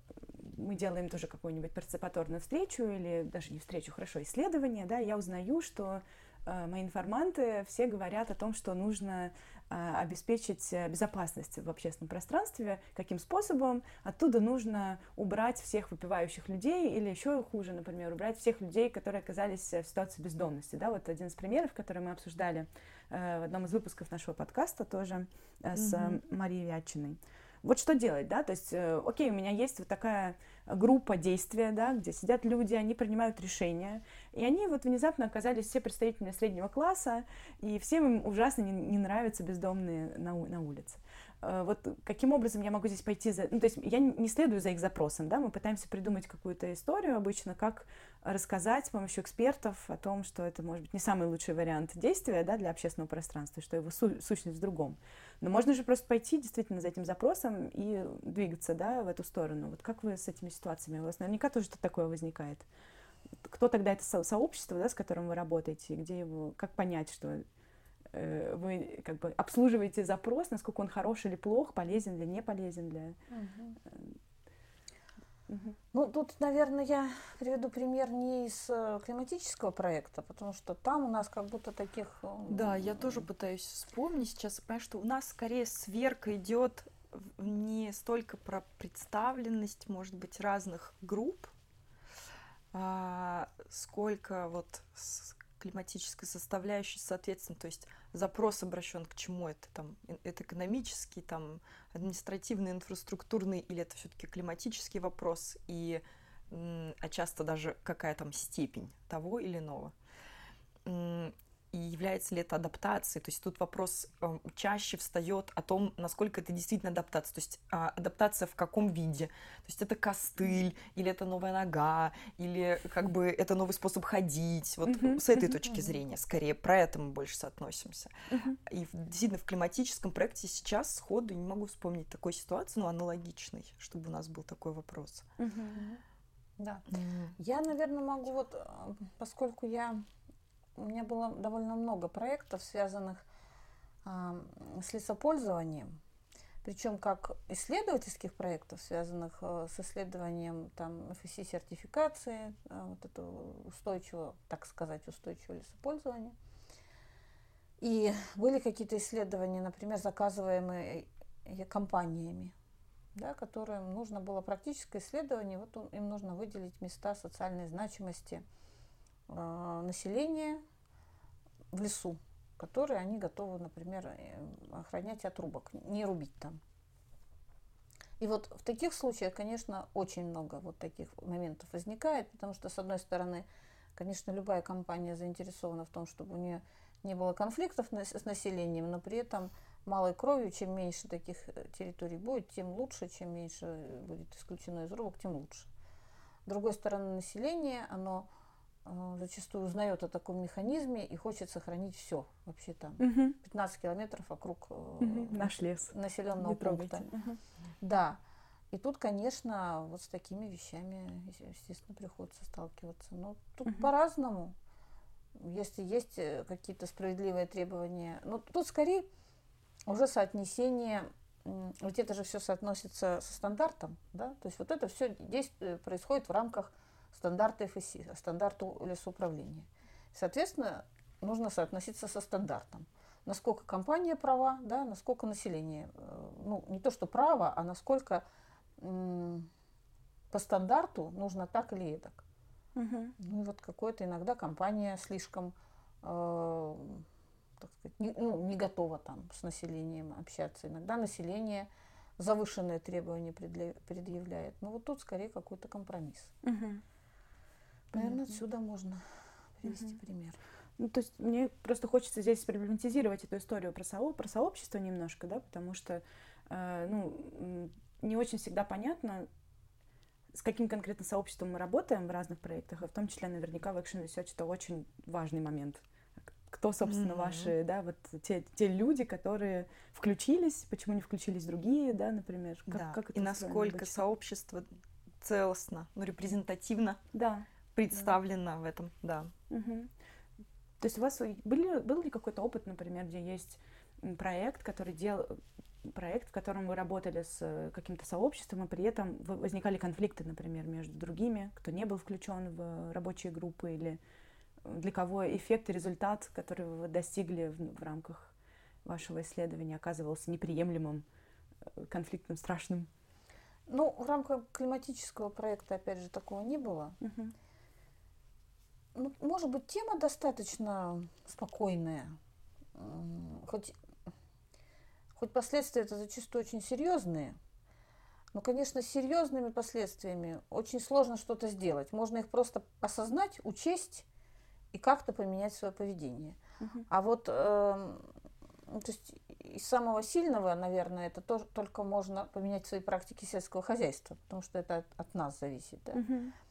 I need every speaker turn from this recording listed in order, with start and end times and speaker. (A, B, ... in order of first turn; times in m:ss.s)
0:00.3-1:02.7 A
0:25.8-0:26.2 B
1:03.4-1:07.4 A
1:08.1-1:13.2 A
1:13.3-1:13.8 C
1:13.8-1:14.2 A
1:15.5-1:15.8 A
1:15.9-1:23.2 C
1:22.5-1:31.5 B
1:32.7-1:49.9 B
1:50.8-2:15.3 B
2:04.8-2:05.2 A
2:08.3-2:08.6 A
2:15.4-2:15.8 A
2:15.7-2:16.0 C
2:16.6-2:20.0 C
2:16.9-2:17.3 B
2:20.8-2:23.2 C
2:24.0-2:26.0 C
2:26.6-2:36.4 C
2:37.8-2:42.5 C
2:43.1-2:48.4 C
2:49.3-2:50.6 C
2:51.7-2:56.6 C
2:58.2-3:15.7 C
3:16.4-3:18.3 C
3:18.8-3:27.1 C
3:23.0-3:23.4 A
3:25.0-3:27.4 A
3:27.8-3:28.2 C
3:28.7-3:34.5 C
3:35.4-3:39.1 C
3:39.8-3:58.2 C
3:58.8-3:59.5 C
4:00.3-4:02.2 C
4:02.8-4:03.1 A
4:03.2-4:07.0 C
4:07.6-4:16.3 C
4:16.4-4:16.8 A
4:17.9-4:18.3 A
4:17.9-4:20.4 C
4:19.7-4:20.0 A
4:20.8-4:29.3 A
4:30.3-4:44.0 A
4:36.8-4:37.5 B
4:42.7-4:44.7 B
4:45.2-4:47.0 B
4:47.1-4:47.4 A
4:47.7-4:49.3 B
4:49.5-4:49.9 A
4:50.8-5:04.0 A
5:04.6-5:08.3 A
5:08.8-5:11.0 A
5:11.8-5:12.9 A
5:13.7-5:17.0 C
5:17.0-5:17.3 A
5:18.9-5:22.2 C
5:22.7-5:23.7 C
5:25.2-5:27.4 C
5:28.3-5:34.0 C
5:34.7-5:36.4 C
5:36.6-5:36.8 A
5:36.9-5:38.1 C
5:38.7-5:46.0 C
5:45.9-5:46.3 A